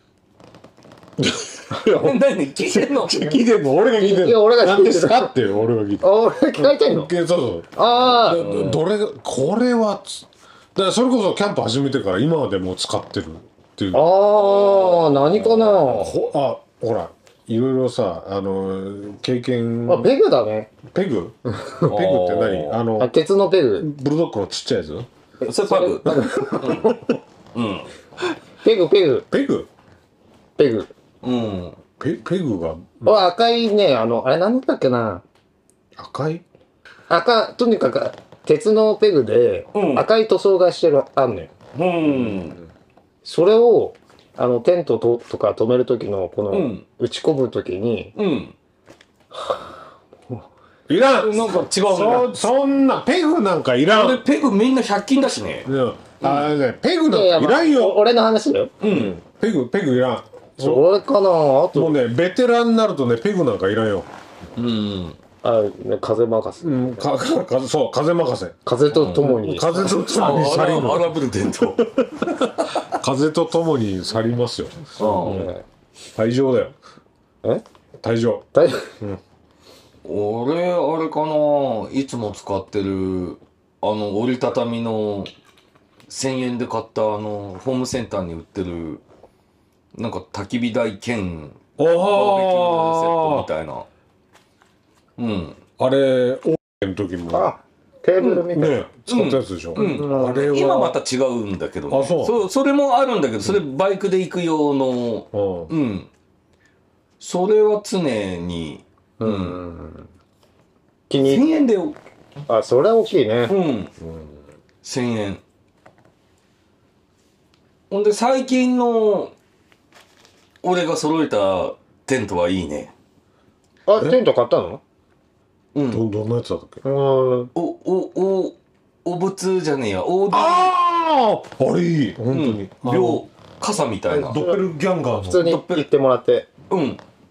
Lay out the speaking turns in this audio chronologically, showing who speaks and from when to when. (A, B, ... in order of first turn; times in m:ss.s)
0:01.2-0:02.0 A
0:01.7-0:02.1 B
0:01.9-0:03.2 C
0:02.6-0:14.0 A
0:04.0-0:05.3 B
0:06.0-0:07.1 B
0:07.8-0:08.5 B
0:08.3-0:08.8 C
0:13.9-0:16.1 B
0:14.4-0:15.9 C
0:15.8-0:20.1 A
0:19.9-0:20.7 B
0:20.8-0:23.1 A
0:21.8-0:22.8 C
0:23.0-0:23.9 B
0:23.8-0:25.1 A
0:25.4-0:27.0 B
0:25.4-0:27.0 C
0:26.4-0:27.0 A
0:27.5-0:27.9 C
0:28.6-0:29.3 B
0:29.3-0:29.7 A
0:30.6-0:30.9 B
0:31.2-0:31.8 C
0:32.0-0:33.2 A
0:33.0-0:35.2 B
0:36.0-0:36.4 A
0:37.1-0:41.5 B
0:39.7-0:40.1 C
0:41.7-0:42.6 C
0:42.2-0:42.7 A
0:43.2-0:48.1 B
0:46.5-0:46.8 C
0:48.2-0:48.5 C
0:49.3-0:49.7 B
0:50.9-0:54.2 A
0:51.2-0:52.4 C
0:53.9-0:55.7 C
0:55.6-0:58.0 A
0:57.1-0:58.7 B
0:58.8-0:59.1 C
0:58.8-1:00.9 A
1:00.6-1:02.0 B
1:01.7-1:04.1 A
1:04.6-1:05.2 C
1:05.4-1:07.1 B
1:06.6-1:11.2 A
1:08.6-1:10.1 B
1:08.9-1:11.9 C
1:11.8-1:15.5 A
1:12.6-1:12.8 C
1:15.0-1:15.5 C
1:15.0-1:15.6 B
1:16.1-1:16.8 A
1:18.0-1:18.5 A
1:18.5-1:18.9 B
1:20.0-1:25.3 C
1:26.1-1:29.0 C
1:29.9-1:33.9 C
1:31.8-1:33.5 A
1:35.2-1:35.6 C
1:35.8-1:37.5 A
1:37.3-1:38.8 B
1:38.4-1:40.9 A
1:39.1-1:46.1 C
1:39.7-1:40.7 B
1:41.9-1:42.4 A
1:45.3-1:45.7 A
1:47.2-1:49.6 C
1:49.2-1:50.1 B
1:51.1-1:51.4 B
1:51.2-1:52.0 C
1:52.5-1:53.5 B
1:53.5-1:53.9 C
1:54.0-1:54.4 A
1:54.8-1:55.4 C
1:57.9-1:59.3 C
2:00.6-2:02.9 C
2:03.9-2:04.8 B
2:05.7-2:06.0 C
2:05.9-2:06.8 A
2:06.8-2:07.5 B
2:07.5-2:10.7 C
2:10.3-2:13.2 A
2:12.3-2:14.4 C
2:14.1-2:16.5 B
2:14.2-2:15.5 A
2:15.3-2:15.9 C
2:16.7-2:17.0 C